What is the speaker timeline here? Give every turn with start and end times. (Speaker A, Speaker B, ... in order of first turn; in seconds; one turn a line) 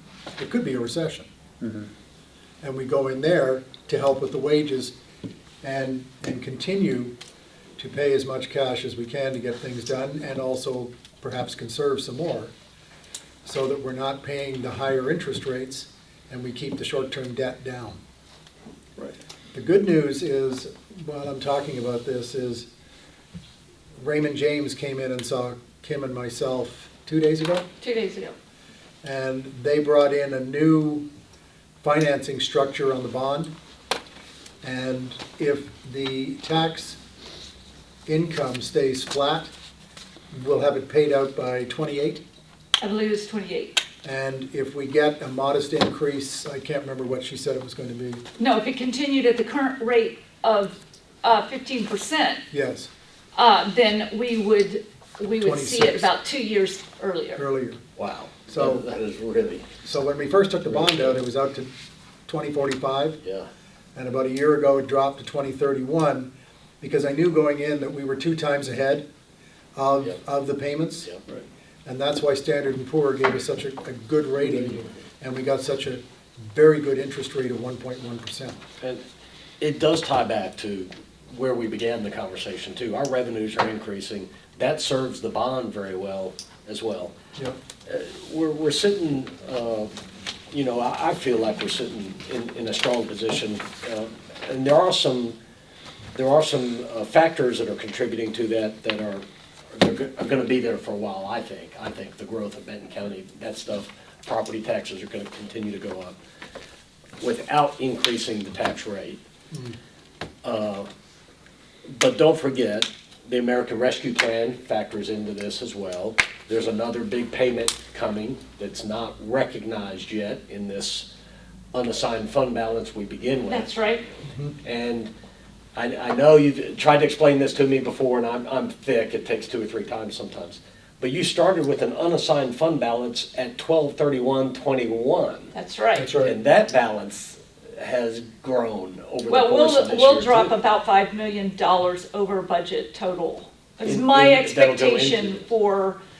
Speaker A: 0.4-1.2
Speaker A: 2.6-4.9
Speaker A: 5.6-7.1
Speaker A: 7.8-12.5
Speaker A: 13.4-18.0
Speaker A: 19.5-22.7
Speaker A: 24.0-27.6
Speaker B: 27.8-28.3
Speaker A: 29.0-31.0
Speaker A: 31.8-33.5
Speaker A: 34.6-37.0
Speaker A: 38.1-39.5
Speaker A: 40.3-42.2
Speaker B: 42.8-43.8
Speaker A: 44.0-48.2
Speaker B: 48.4-52.4
Speaker A: 52.5-52.9
Speaker B: 53.4-57.4
Speaker A: 55.4-56.1
Speaker A: 57.4-57.8
Speaker C: 58.0-59.7
Speaker A: 58.5-58.8
Speaker A: 59.8-61.7
Speaker C: 60.7-61.1
Speaker A: 62.3-63.2
Speaker C: 63.2-63.5
Speaker A: 64.0-66.3
Speaker A: 66.8-69.0
Speaker A: 69.8-71.1
Speaker A: 71.8-78.6
Speaker C: 79.6-87.1
Speaker C: 87.9-90.0
Speaker C: 90.5-95.4
Speaker C: 96.2-106.2
Speaker C: 107.2-109.2
Speaker A: 109.5-109.8
Speaker C: 110.4-110.9
Speaker C: 111.9-121.1
Speaker C: 121.7-123.7
Speaker B: 123.5-124.0
Speaker A: 124.3-124.5
Speaker C: 124.6-125.1
Speaker C: 125.8-135.5
Speaker B: 135.5-136.1
Speaker A: 136.0-136.3
Speaker C: 136.2-140.5
Speaker B: 139.3-146.0
Speaker C: 143.8-145.4